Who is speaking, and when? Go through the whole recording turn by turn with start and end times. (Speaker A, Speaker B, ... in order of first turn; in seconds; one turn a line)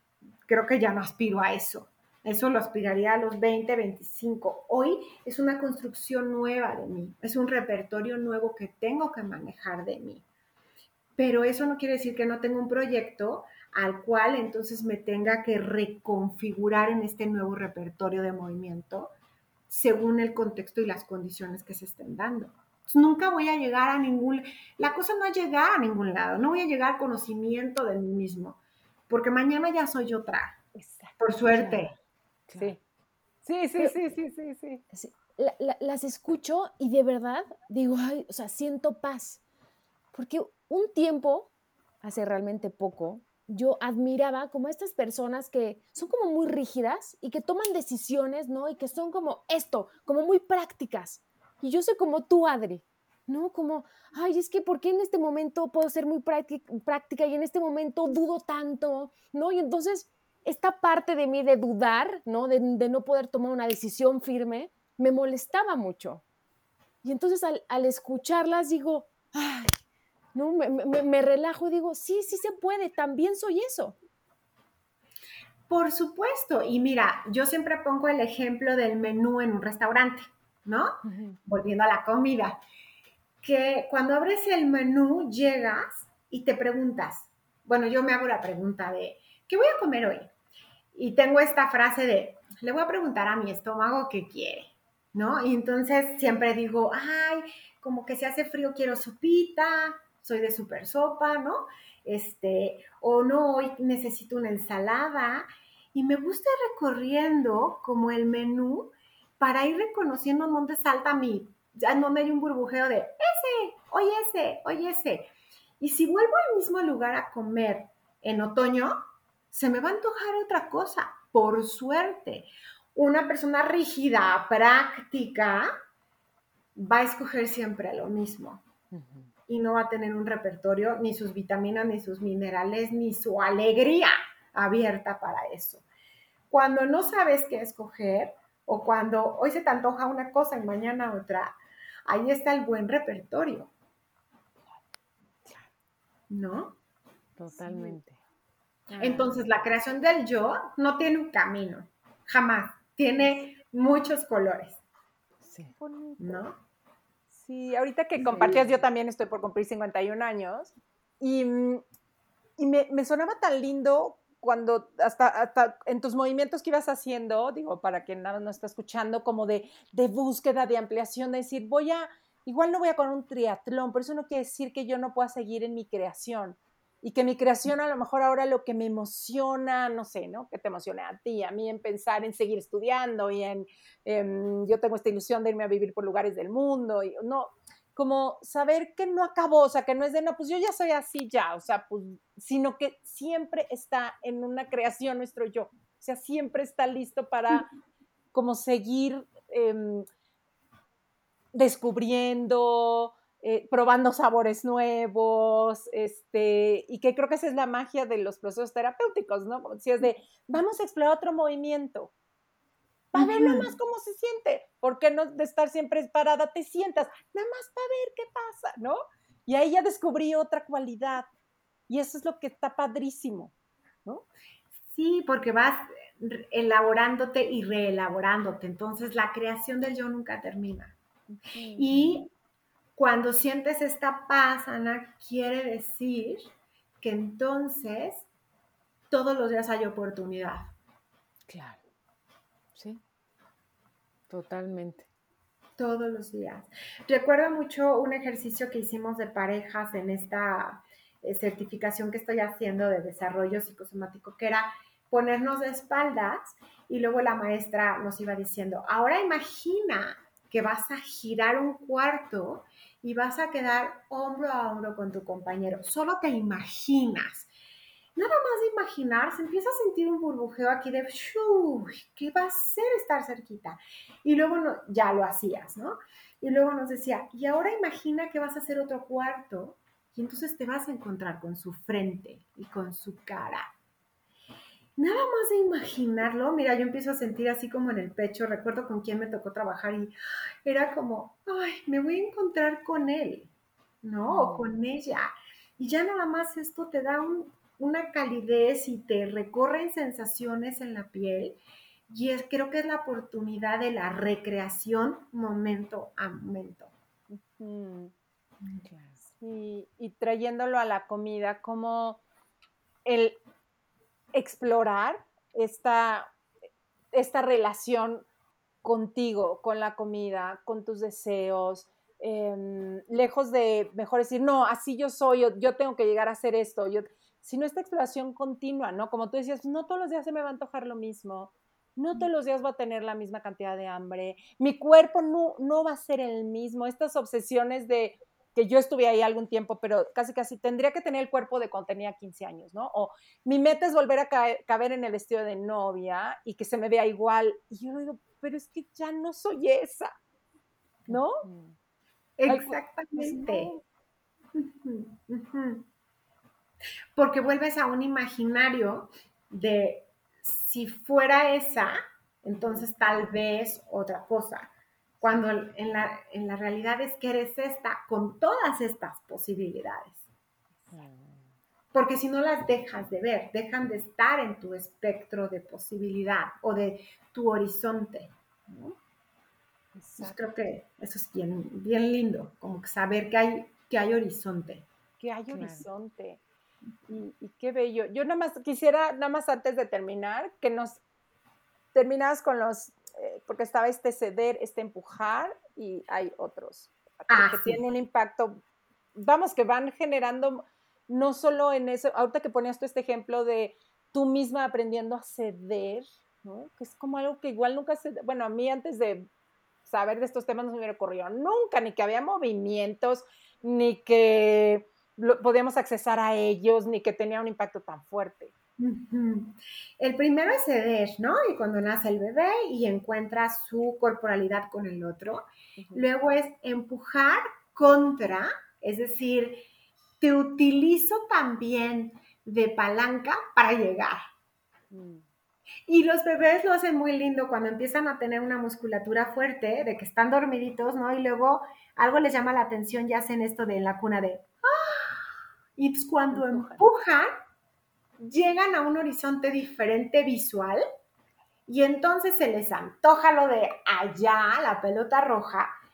Speaker A: 0.5-10.2
Speaker A: 11.2-19.1
Speaker A: 19.7-30.6
Speaker B: 30.8-31.2
Speaker A: 31.2-31.9
Speaker C: 31.5-31.8
Speaker C: 32.5-32.8
Speaker B: 33.5-34.8
Speaker C: 34.9-39.4
Speaker C: 40.1-41.5
Speaker C: 42.0-66.2
Speaker C: 67.0-69.8
Speaker C: 70.3-74.0
Speaker A: 75.7-82.6
Speaker C: 81.0-81.4
Speaker A: 83.4-90.3
Speaker A: 90.9-119.0
Speaker A: 119.5-125.7
Speaker A: 126.8-128.6
Speaker C: 128.9-129.3
Speaker A: 129.5-135.8
Speaker A: 136.5-141.5
Speaker A: 142.1-143.7
Speaker A: 146.3-146.8
Speaker C: 147.4-148.2
Speaker B: 147.6-148.0
Speaker B: 148.9-149.3
Speaker C: 148.9-149.2
Speaker A: 149.0-154.8
Speaker C: 155.4-155.7
Speaker B: 155.7-156.5
Speaker A: 156.2-156.6
Speaker B: 157.3-161.8
Speaker C: 158.2-158.8
Speaker A: 158.3-158.6
Speaker B: 162.6-197.7
Speaker B: 198.3-200.1
Speaker B: 201.5-212.1
Speaker B: 213.1-221.3
Speaker A: 213.2-213.7
Speaker B: 221.9-223.5
Speaker A: 224.9-231.0
Speaker C: 231.5-232.2
Speaker A: 231.7-232.3
Speaker A: 233.0-236.5
Speaker A: 237.0-238.3
Speaker A: 239.1-240.7
Speaker C: 241.5-241.8
Speaker C: 242.8-243.0
Speaker C: 244.3-245.1
Speaker A: 245.8-267.5
Speaker A: 268.2-283.7
Speaker A: 285.0-290.1
Speaker A: 290.7-293.5
Speaker A: 294.0-301.6
Speaker C: 294.3-294.7
Speaker A: 302.1-306.9
Speaker B: 307.3-308.1
Speaker C: 308.7-309.1
Speaker B: 309.4-312.2
Speaker B: 313.1-313.4
Speaker B: 314.3-316.3
Speaker B: 317.1-318.3
Speaker B: 318.8-350.1
Speaker B: 351.1-351.4
Speaker C: 351.1-351.8
Speaker A: 352.4-353.7
Speaker B: 352.5-353.8
Speaker A: 354.6-355.9
Speaker A: 357.1-370.2
Speaker C: 370.9-371.4
Speaker A: 371.9-379.0
Speaker B: 380.0-380.4
Speaker A: 380.2-384.9
Speaker B: 385.2-386.4
Speaker C: 385.5-385.9
Speaker B: 387.1-391.0
Speaker B: 391.9-398.6
Speaker A: 397.3-397.8
Speaker B: 399.2-409.3
Speaker B: 409.9-418.5
Speaker A: 418.8-429.6
Speaker A: 430.2-434.2
Speaker B: 434.9-435.2
Speaker A: 435.9-447.4
Speaker B: 446.3-446.9
Speaker A: 448.2-450.8
Speaker A: 451.7-455.7